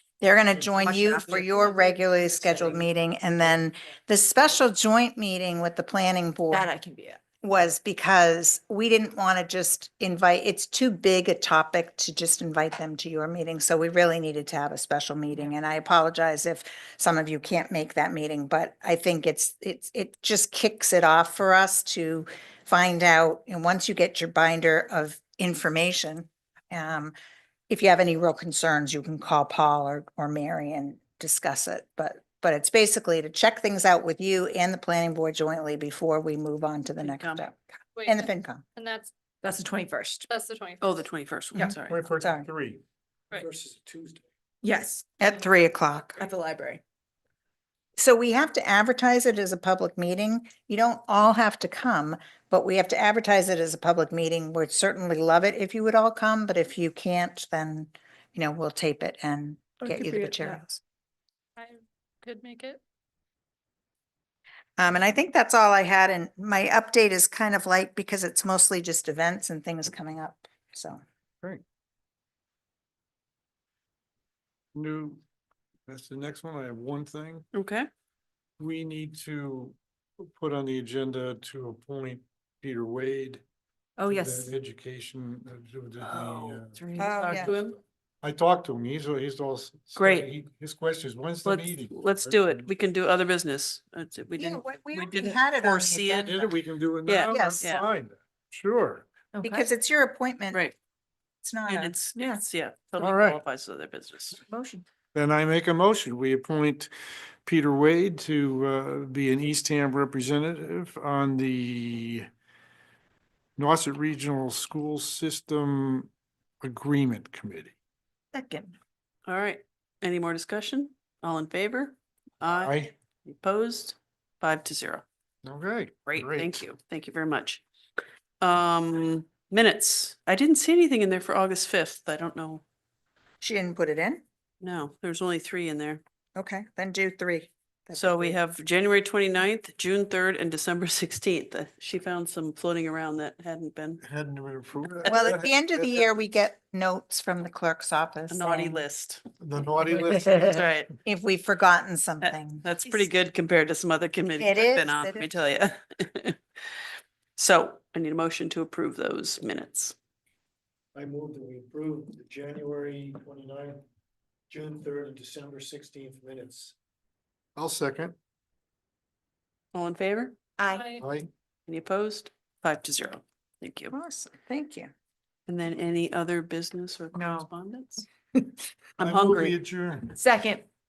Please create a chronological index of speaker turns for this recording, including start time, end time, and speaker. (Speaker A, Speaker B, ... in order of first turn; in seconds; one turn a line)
Speaker A: 0.2-6.7
Speaker B: 0.7-2.9
Speaker B: 6.5-7.2
Speaker A: 7.4-27.1
Speaker A: 27.7-38.6
Speaker C: 37.0-37.5
Speaker D: 38.0-39.1
Speaker B: 39.4-40.3
Speaker D: 40.3-41.1
Speaker C: 40.8-42.0
Speaker A: 41.6-42.5
Speaker E: 41.9-42.8
Speaker F: 43.3-44.3
Speaker B: 44.6-45.1
Speaker A: 45.2-46.2
Speaker B: 46.1-46.8
Speaker A: 48.0-60.8
Speaker B: 59.8-60.6
Speaker D: 61.6-62.8
Speaker A: 64.8-71.0
Speaker E: 74.7-75.2
Speaker E: 75.9-77.5
Speaker C: 77.5-77.9
Speaker E: 78.6-83.4
Speaker B: 84.0-84.5
Speaker E: 84.0-92.7
Speaker B: 86.0-87.5
Speaker A: 87.0-87.5
Speaker C: 87.2-87.8
Speaker C: 89.9-90.3
Speaker C: 91.4-96.4
Speaker A: 94.3-96.5
Speaker E: 96.2-99.0
Speaker C: 97.0-97.8
Speaker A: 97.3-97.6
Speaker B: 99.3-99.7
Speaker A: 99.4-100.6
Speaker A: 101.4-102.0
Speaker C: 101.7-104.4
Speaker B: 102.1-102.4
Speaker E: 103.0-103.4
Speaker B: 104.5-104.8
Speaker E: 105.1-106.9
Speaker E: 107.4-112.3
Speaker E: 113.6-116.1
Speaker E: 116.6-117.7
Speaker A: 118.3-118.7
Speaker C: 119.3-125.0
Speaker E: 122.6-122.9
Speaker E: 125.4-126.6
Speaker C: 126.1-127.6
Speaker C: 128.4-132.6
Speaker A: 133.4-134.2
Speaker C: 134.6-136.0
Speaker A: 136.3-138.4
Speaker C: 137.9-144.0
Speaker E: 144.0-146.1
Speaker A: 145.1-148.8
Speaker C: 148.3-149.2
Speaker E: 149.4-150.6
Speaker C: 150.4-150.9
Speaker A: 151.0-153.1
Speaker C: 152.2-159.9
Speaker A: 154.4-155.3
Speaker F: 160.9-163.8
Speaker F: 164.5-166.7
Speaker E: 167.6-168.1
Speaker C: 169.7-170.4
Speaker B: 170.6-170.9
Speaker D: 170.7-171.0
Speaker E: 171.0-171.3
Speaker C: 171.7-173.9
Speaker A: 173.9-174.9
Speaker C: 175.5-178.1
Speaker B: 177.1-177.5
Speaker C: 179.0-179.6
Speaker E: 179.0-180.1
Speaker B: 180.1-180.6